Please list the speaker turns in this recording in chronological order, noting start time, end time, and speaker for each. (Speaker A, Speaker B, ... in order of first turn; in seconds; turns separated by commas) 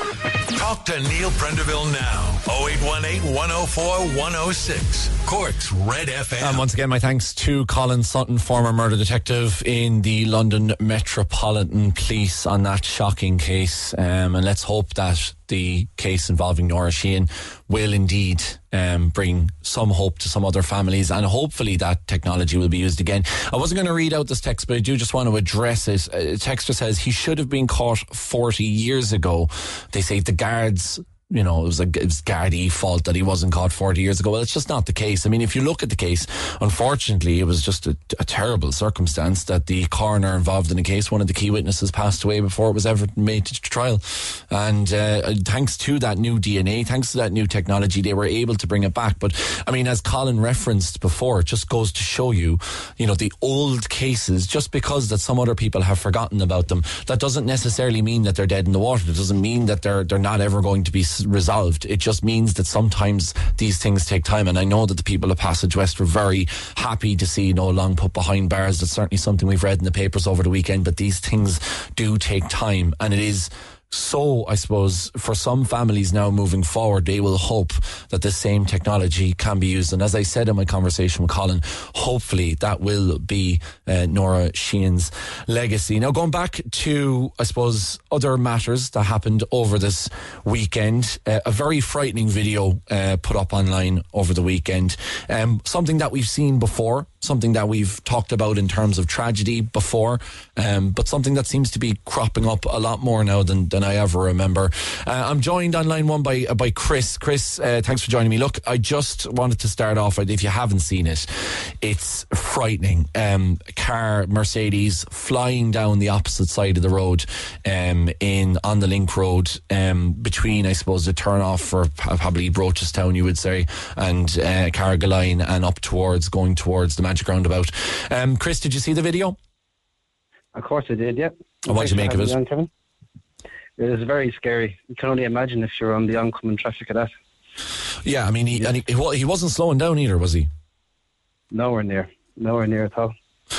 Speaker A: 0.5-6.7, Speaker B: 6.4-129.4, Speaker C: 130.5-132.7, Speaker B: 131.7-132.4, Speaker C: 133.8-137.1, Speaker B: 138.1-140.5, Speaker C: 141.5-143.1